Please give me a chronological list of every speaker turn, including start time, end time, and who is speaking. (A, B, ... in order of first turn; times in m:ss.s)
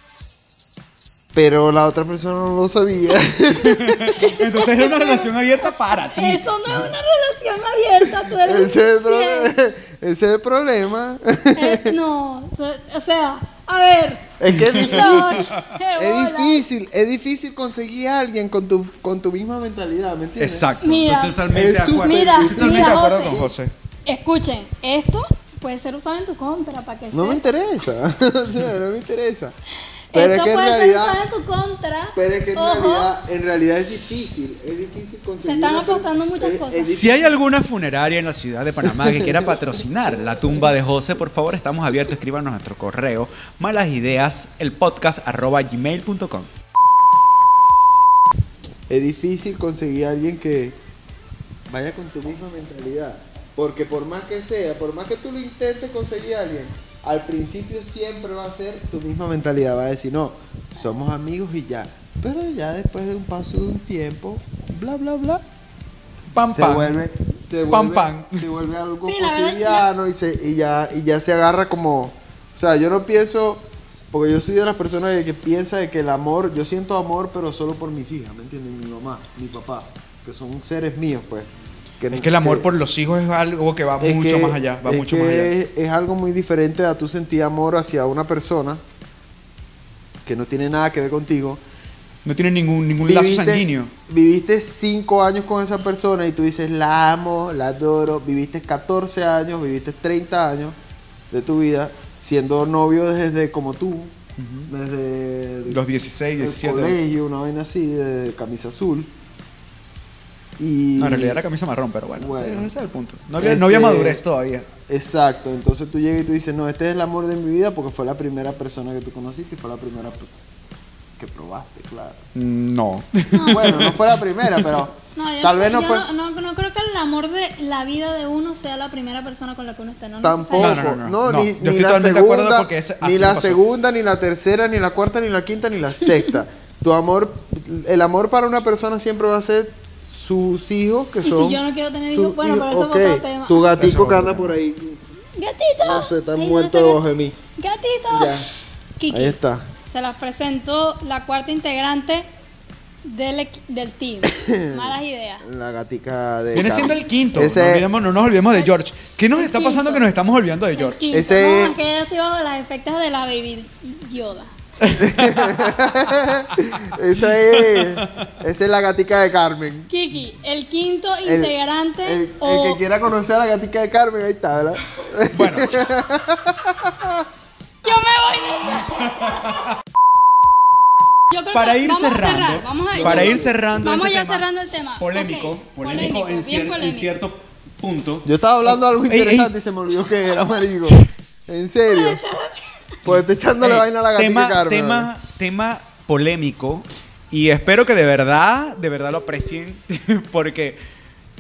0:01.3-0:04.2 A
0:03.6-0:06.5 B
0:04.1-0:09.6 C
0:08.3-0:12.0 A
0:11.5-0:16.6 C
0:14.4-0:20.7 A
0:14.4-0:15.8 B
0:20.4-0:23.7 B
0:20.8-0:21.4 C
0:21.5-0:23.5 A
0:22.0-0:23.4 C
0:24.1-0:27.4 C
0:27.1-0:29.6 A
0:30.1-0:33.1 C
0:30.1-0:31.2 A
0:32.1-0:37.3 A
0:35.4-0:37.1 C
0:36.9-0:46.5 B
0:38.8-0:39.6 A
0:48.9-0:50.8 A
0:51.7-1:05.4 A
1:06.3-1:07.0 B
1:06.5-1:21.5 A
1:07.7-1:08.4 B
1:09.1-1:09.9 C
1:22.0-1:22.6 A
1:22.1-1:25.5 B
1:24.0-1:28.8 A
1:30.3-1:31.6 A
1:32.2-1:33.9 B
1:33.0-1:40.8 A
1:41.3-1:44.2 A
1:44.4-1:44.7 B
1:44.7-1:45.8 A
1:45.7-1:47.0 B
1:46.4-1:49.1 A
1:50.6-1:51.4 A
1:51.0-1:54.7 B
1:52.2-1:52.7 A
1:53.4-1:54.2 A
1:54.9-2:00.3 A
2:01.2-2:02.2 A
2:02.4-2:04.8 B
2:03.3-2:03.9 C
2:03.5-2:06.1 A
2:05.1-2:10.8 C
2:10.2-2:25.0 A
2:10.6-2:13.6 B
2:21.2-2:23.8 C
2:23.8-2:24.6 B
2:25.4-2:27.0 C
2:25.8-2:27.4 A
2:27.6-2:28.4 C
2:28.1-2:28.5 A
2:29.0-2:29.4 C
2:29.1-2:29.6 A
2:29.9-2:32.3 C
2:33.0-2:35.5 C
2:34.2-2:37.9 A
2:36.6-2:41.2 B
2:39.4-2:40.1 C
2:40.8-2:44.5 C
2:41.1-2:41.8 A
2:44.8-2:45.7 B
2:44.9-2:49.9 A
2:47.5-2:48.3 B
2:49.9-2:52.8 C
2:51.2-2:57.2 A
2:55.3-2:55.8 B
2:57.8-2:59.0 C
2:59.0-2:59.6 B
3:01.3-3:07.1 C
3:01.5-3:04.5 B
3:03.0-3:03.5 A
3:05.0-3:09.5 B
3:08.2-3:12.2 A
3:11.9-3:12.6 C
3:13.0-3:15.1 A
3:13.1-3:20.8 B